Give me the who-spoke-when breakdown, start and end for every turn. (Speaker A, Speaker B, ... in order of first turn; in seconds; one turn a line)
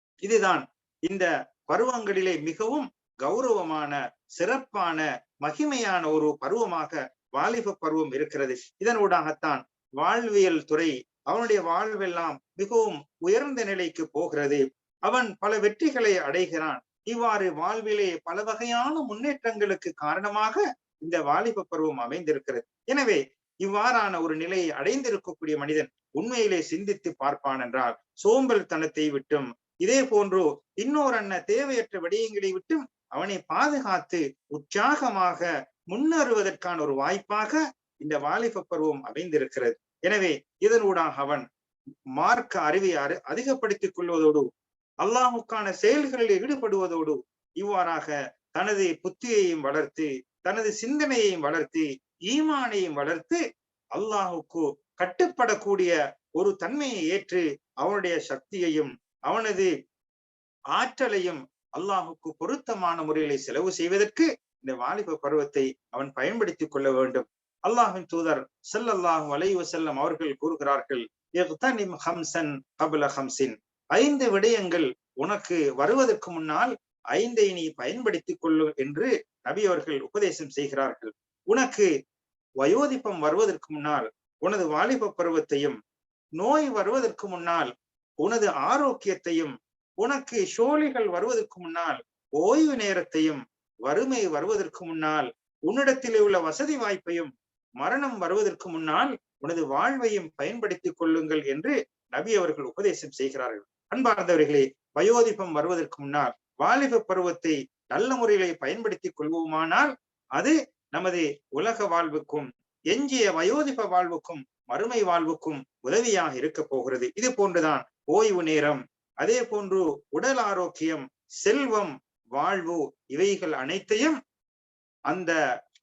Speaker A: 0.2-41.4
Speaker A: 42.2-44.5
Speaker A: 45.0-53.4
Speaker A: 54.0-59.7
Speaker A: 60.8-81.9
Speaker A: 82.6-85.8
Speaker A: 86.4-87.7
Speaker A: 88.2-124.2
Speaker A: 125.1-125.3